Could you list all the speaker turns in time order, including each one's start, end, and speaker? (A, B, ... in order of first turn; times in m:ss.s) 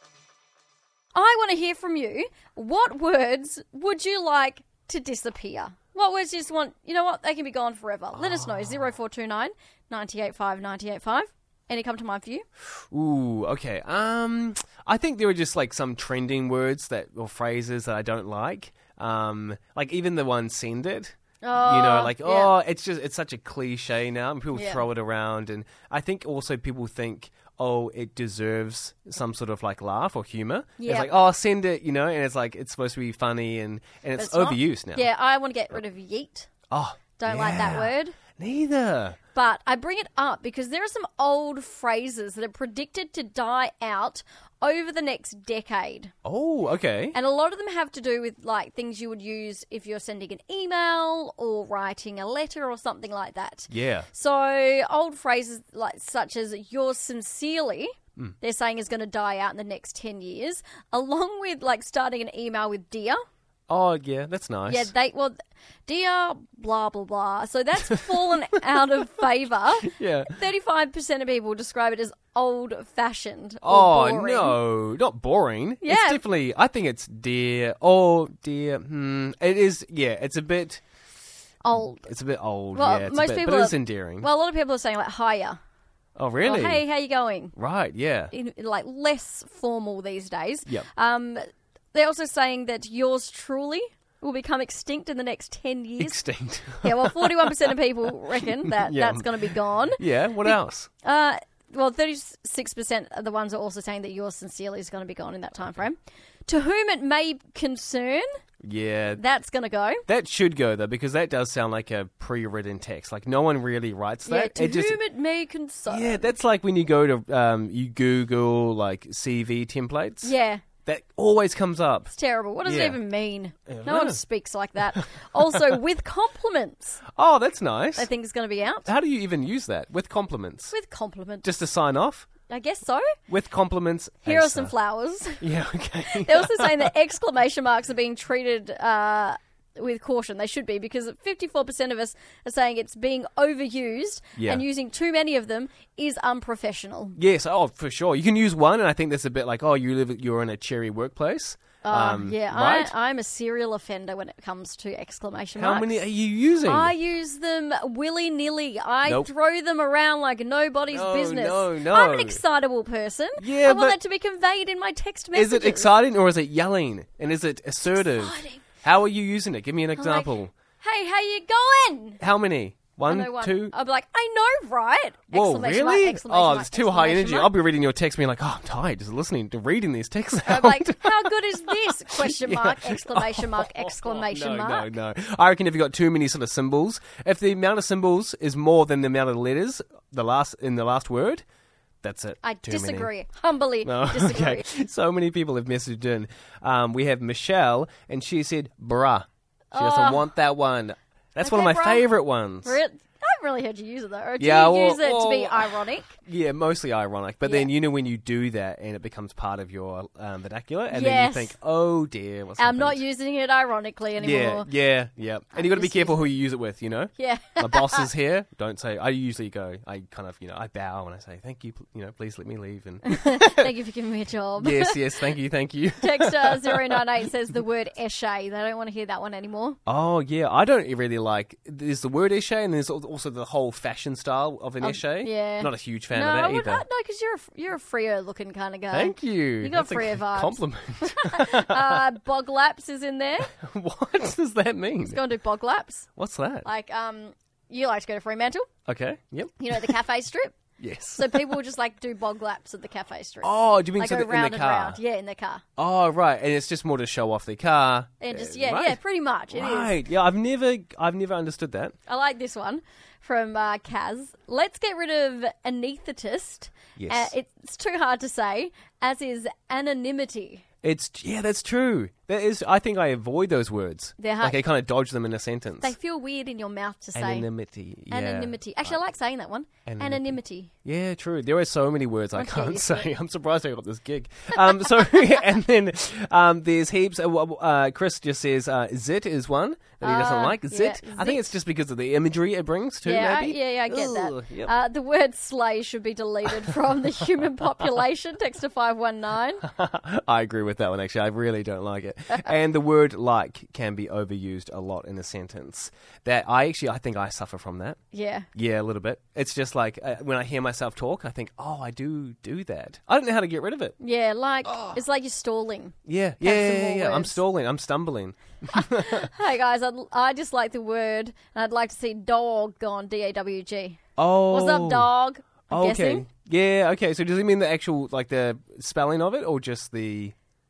0:01.2-0:12.4 A
0:08.2-0:08.8 B
0:12.9-0:35.1 B
0:21.4-0:22.6 A
0:24.5-0:24.8 A
0:30.8-0:31.1 A
0:34.2-0:36.5 A
0:36.7-0:39.2 B
0:37.2-0:38.2 A
0:39.3-0:46.1 A
0:46.2-0:47.2 B
0:47.1-1:03.2 A
0:53.7-0:54.1 B
1:03.7-1:04.9 B
1:04.7-1:05.4 A
1:05.9-1:14.6 A
1:09.8-1:10.4 B
1:13.6-1:20.8 B
1:15.8-1:16.2 A
1:21.6-1:22.1 A
1:22.0-1:24.3 B
1:22.7-1:25.6 A
1:26.2-1:26.8 B
1:26.4-1:27.6 A
1:27.6-1:28.3 B
1:28.3-1:31.4 A
1:31.9-1:36.2 A
1:36.0-1:37.8 B
1:36.8-1:48.3 A
1:38.3-1:40.9 B
1:48.6-1:49.2 B
1:49.2-1:50.0 A
1:50.1-1:55.0 B
1:54.3-1:56.3 A
1:55.9-2:00.3 B
2:00.2-2:00.6 A
2:00.9-2:02.1 B
2:02.1-2:07.0 A
2:02.6-2:03.0 B
2:03.7-2:04.2 B
2:04.9-2:05.8 B
2:07.2-2:08.1 B
2:08.0-2:08.9 A
2:08.9-2:10.7 B
2:10.7-2:11.5 A
2:11.4-2:12.3 B
2:12.5-2:13.0 A
2:13.3-2:14.7 B
2:14.2-2:15.5 A
2:15.4-2:16.9 B
2:16.1-2:27.2 A
2:24.4-2:24.6 B
2:27.2-2:32.9 B
2:31.8-2:36.0 A
2:35.6-2:36.9 B
2:36.6-2:45.9 A
2:40.9-2:42.4 B
2:43.4-2:44.0 B
2:45.3-2:50.5 B
2:47.9-2:48.6 A
2:50.0-2:52.2 A
2:52.2-2:53.7 B
2:53.1-2:57.6 A
2:55.3-3:11.4 B
3:00.5-3:04.9 A
3:12.0-3:13.1 B
3:12.4-3:14.6 A
3:13.8-3:22.8 B
3:19.7-3:20.3 A
3:21.4-3:22.1 A
3:22.6-3:26.1 A
3:24.4-3:33.0 B
3:27.4-3:27.7 A
3:30.9-3:31.5 A
3:32.6-3:34.7 A
3:34.2-3:43.7 B
3:35.5-3:36.3 A
3:37.2-3:38.1 A
3:43.0-3:45.0 A
3:44.6-3:47.0 B
3:46.0-3:49.8 A
3:49.9-3:56.8 B
3:54.8-4:03.5 A
3:58.9-4:02.1 B
4:03.5-4:05.2 B
4:05.0-4:06.1 A
4:06.2-4:06.7 B
4:06.6-4:08.7 A
4:08.9-4:10.0 B
4:09.6-4:10.6 A
4:10.8-4:11.6 B
4:11.2-4:15.6 A
4:13.4-4:15.0 B
4:15.8-4:19.0 B
4:18.2-4:19.9 A
4:19.5-4:21.9 B
4:22.1-4:30.6 A
4:27.0-4:27.3 B
4:30.8-4:36.0 B
4:34.2-4:34.6 A
4:35.8-4:37.5 A
4:37.2-4:39.0 B
4:38.1-4:40.7 A
4:39.9-4:54.8 B
4:42.3-4:43.1 A
4:45.0-4:45.2 A
4:50.0-4:51.5 A
4:53.0-4:59.6 A
4:59.6-5:08.0 B
5:08.1-5:08.5 A
5:08.6-5:14.0 B
5:14.0-5:17.4 A
5:14.6-5:15.0 B
5:16.1-5:19.3 B
5:18.7-5:26.3 A
5:24.2-5:25.1 B
5:25.7-5:30.4 B